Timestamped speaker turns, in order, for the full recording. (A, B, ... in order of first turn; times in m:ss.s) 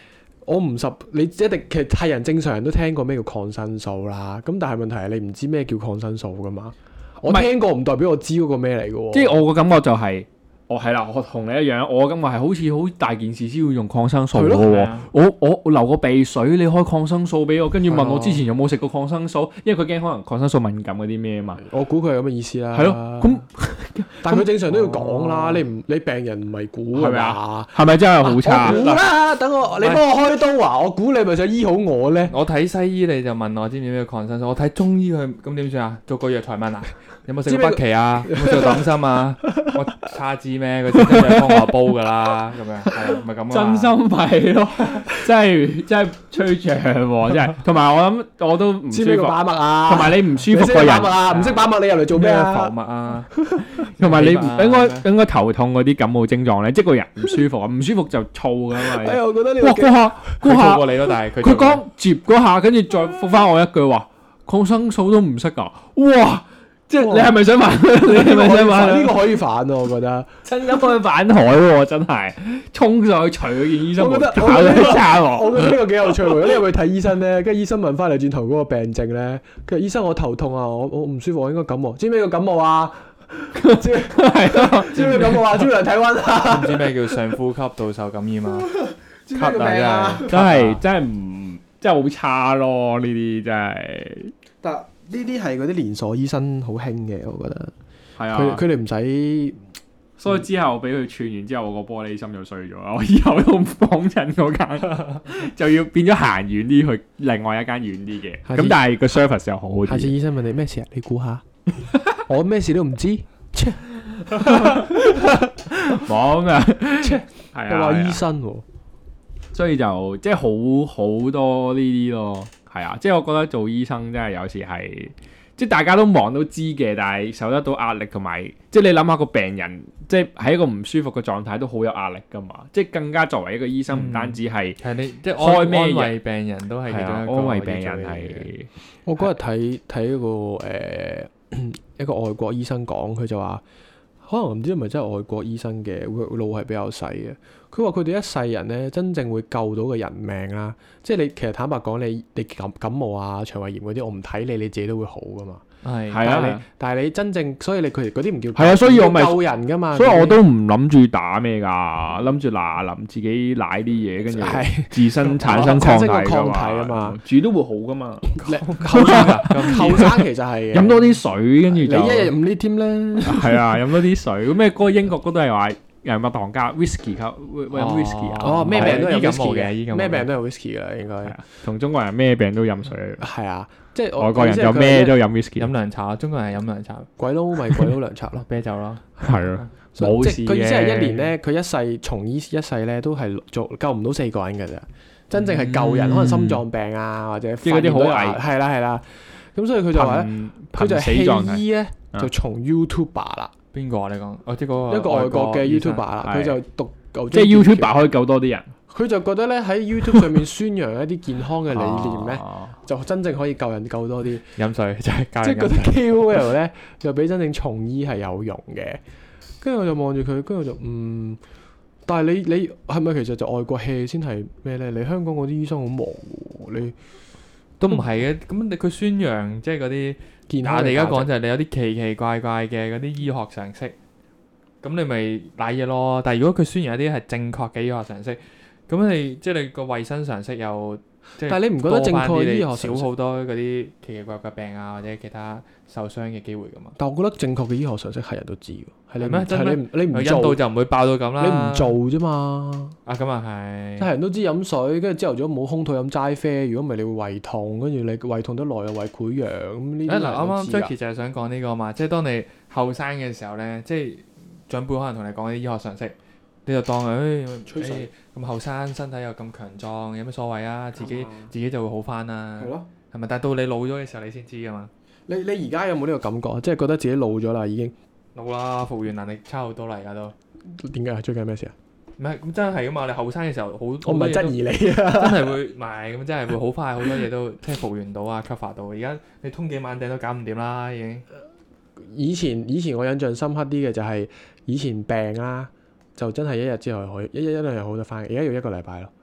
0:00.4-0:09.4 A
0:09.1-0:21.6 B
0:14.3-0:14.7 A
0:14.6-0:15.1 C
0:17.8-0:18.4 A
0:21.6-0:23.4 A
0:22.7-0:24.4 B
0:24.2-0:32.4 A
0:24.7-0:25.6 C
0:26.9-0:28.8 B
0:28.5-0:29.1 C
0:29.8-0:30.0 C
0:32.3-0:43.9 C
0:37.4-0:38.9 A
0:39.5-0:39.8 A
0:43.5-0:51.2 B
0:48.9-0:52.7 A
0:51.3-0:55.1 C
0:53.3-0:53.8 A
0:54.0-1:00.9 B
0:58.7-1:00.3 A
1:00.4-1:01.8 C
1:01.4-1:09.4 B
1:07.0-1:07.3 A
1:07.9-1:10.3 A
1:10.4-1:15.8 B
1:13.9-1:27.2 A
1:23.6-1:25.4 B
1:24.9-1:25.6 C
1:26.4-1:28.7 C
1:28.7-1:30.4 A
1:29.3-1:30.8 C
1:30.3-1:34.3 B
1:34.6-1:37.7 A
1:38.2-1:38.6 B
1:38.3-1:39.6 A
1:40.2-1:50.1 B
1:48.4-1:48.8 A
1:49.8-1:51.4 A
1:52.2-1:54.9 A
1:54.4-1:55.0 B
1:55.7-1:58.2 B
1:57.0-1:58.6 A
1:59.5-2:14.8 B
2:13.9-2:18.5 C
2:15.4-2:16.1 B
2:16.9-2:18.7 B
2:19.0-2:23.6 A
2:24.2-2:35.6 A
2:35.8-2:36.6 C
2:36.1-2:36.6 B
2:36.2-2:40.4 A
2:38.5-2:48.4 B
2:44.2-2:47.2 A
2:48.4-2:51.1 A
2:48.4-2:50.2 C
2:48.9-2:50.1 B
2:50.7-2:52.3 B
2:51.7-2:53.8 A
2:53.2-2:59.0 B
2:57.7-3:00.3 C
2:58.4-3:01.4 A
3:01.2-3:03.2 B
3:03.2-3:05.2 A
3:04.2-3:05.7 B
3:05.6-3:07.1 C
3:07.2-3:08.4 A
3:08.4-3:09.7 C
3:09.2-3:11.3 B
3:09.9-3:23.5 A
3:15.5-3:16.6 B
3:17.6-3:18.4 B
3:19.9-3:22.3 B
3:23.7-3:26.1 C
3:24.9-3:28.1 A
3:26.2-3:26.6 B
3:27.3-3:28.7 B
3:28.9-3:34.4 A
3:31.7-3:32.7 B
3:34.6-3:36.0 C
3:35.4-3:39.0 A
3:39.6-3:41.4 A
3:42.0-3:47.0 A
3:47.8-3:53.9 C
3:50.5-3:51.3 A
3:54.8-4:07.0 C
4:01.4-4:03.1 A
4:07.0-4:10.6 A
4:09.2-4:11.9 C
4:11.4-4:13.0 A
4:13.0-4:14.1 C
4:14.0-4:20.9 A
4:20.0-4:26.1 C
4:26.6-4:34.9 C
4:27.7-4:28.1 A
4:31.0-4:31.5 A
4:32.6-4:32.9 A
4:35.3-4:37.9 A
4:38.3-4:40.3 C
4:40.6-4:41.7 A
4:42.2-4:51.2 C
4:44.0-4:45.6 A
4:52.0-4:59.1 A